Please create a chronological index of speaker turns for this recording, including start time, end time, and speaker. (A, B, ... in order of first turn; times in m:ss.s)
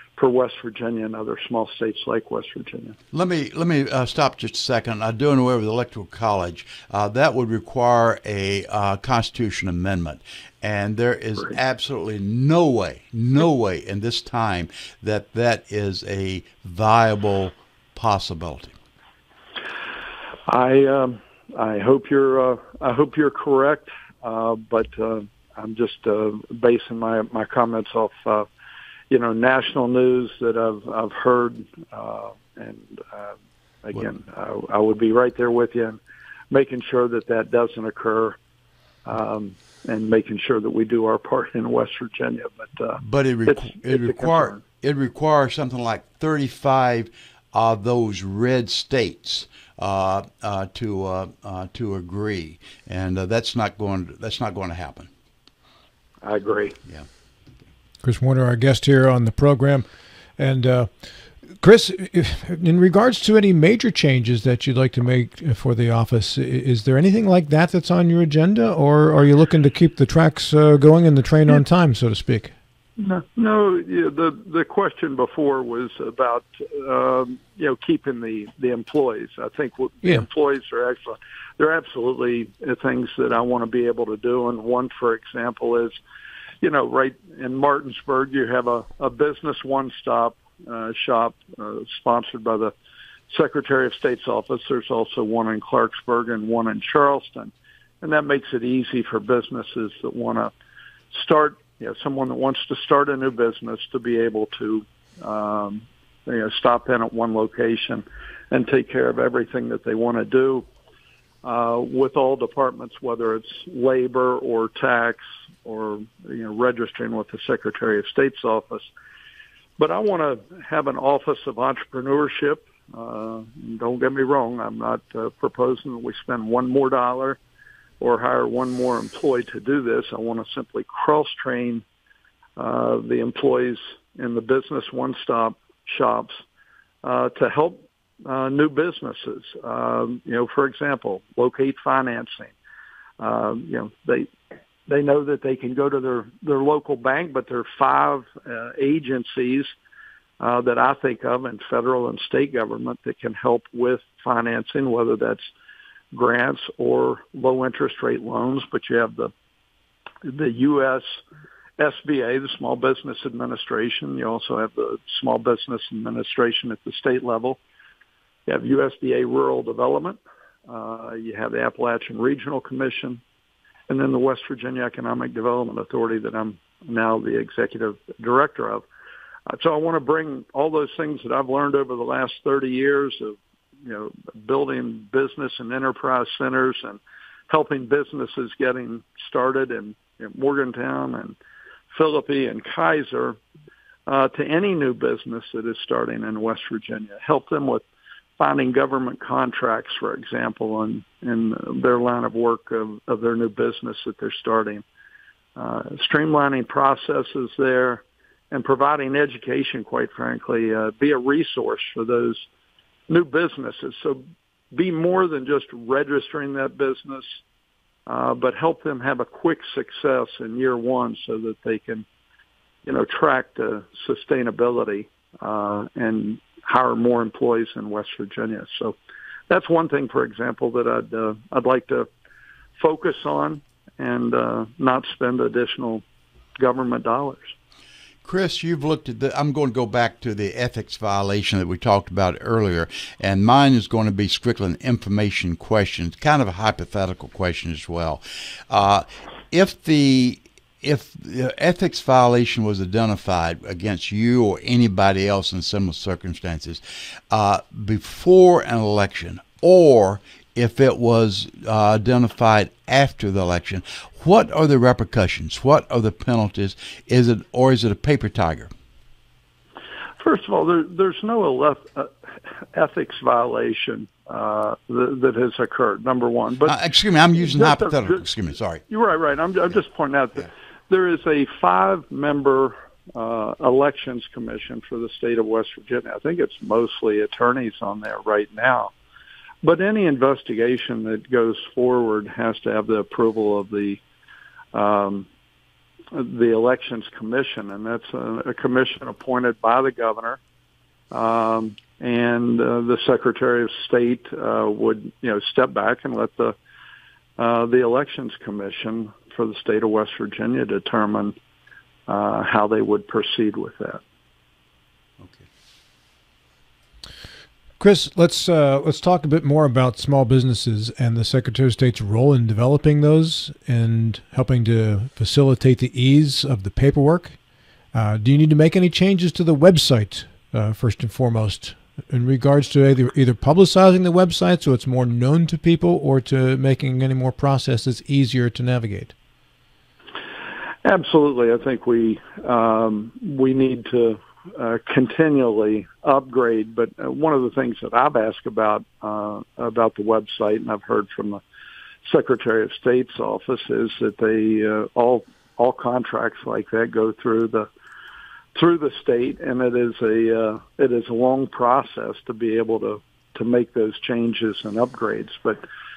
0:00.2-0:03.0 A
0:03.1-0:18.8 B
0:20.5-0:28.5 A
0:29.1-0:36.0 A
0:36.5-0:38.4 A
0:39.1-0:44.6 A
0:43.0-0:55.1 B
0:56.2-0:56.8 A
0:58.0-0:59.9 C
1:00.4-1:00.9 C
1:01.6-1:12.5 C
1:13.0-1:26.0 A
1:26.6-1:32.7 A
1:33.3-1:40.5 A
1:41.1-1:50.7 A
1:51.4-1:58.9 A
1:59.8-2:07.4 A
2:08.0-2:11.8 A
2:12.6-2:16.4 A
2:17.0-2:22.5 A
2:23.2-2:24.3 A
2:24.9-2:29.7 A
2:30.4-2:35.4 A
2:36.1-2:39.3 A
2:40.2-2:41.0 A
2:41.8-2:47.6 A
2:48.5-2:53.2 A
2:53.9-2:58.8 A
2:59.5-3:11.4 A
3:11.9-3:13.4 A
3:14.1-3:17.8 A
3:18.4-3:24.8 A
3:25.6-3:32.5 A
3:33.1-3:34.2 A
3:34.7-3:37.4 A
3:38.1-3:42.1 A
3:42.8-3:49.0 A
3:49.5-3:52.1 A
3:52.8-3:56.0 A
3:56.6-3:57.5 A
3:58.2-4:28.7 B
4:30.2-4:36.8 A
4:36.6-4:38.8 B
4:37.4-4:38.3 A
4:38.9-4:48.9 A
4:49.6-4:54.0 A
4:54.7-4:55.3 A
4:56.1-5:00.4 A
5:01.1-5:06.6 A
5:07.4-5:11.4 A
5:12.1-5:14.0 A
5:15.2-5:15.4 B
5:17.8-5:27.4 C
5:27.9-5:39.1 C
5:40.8-5:51.4 A
5:52.0-5:57.7 A
5:58.5-6:05.6 A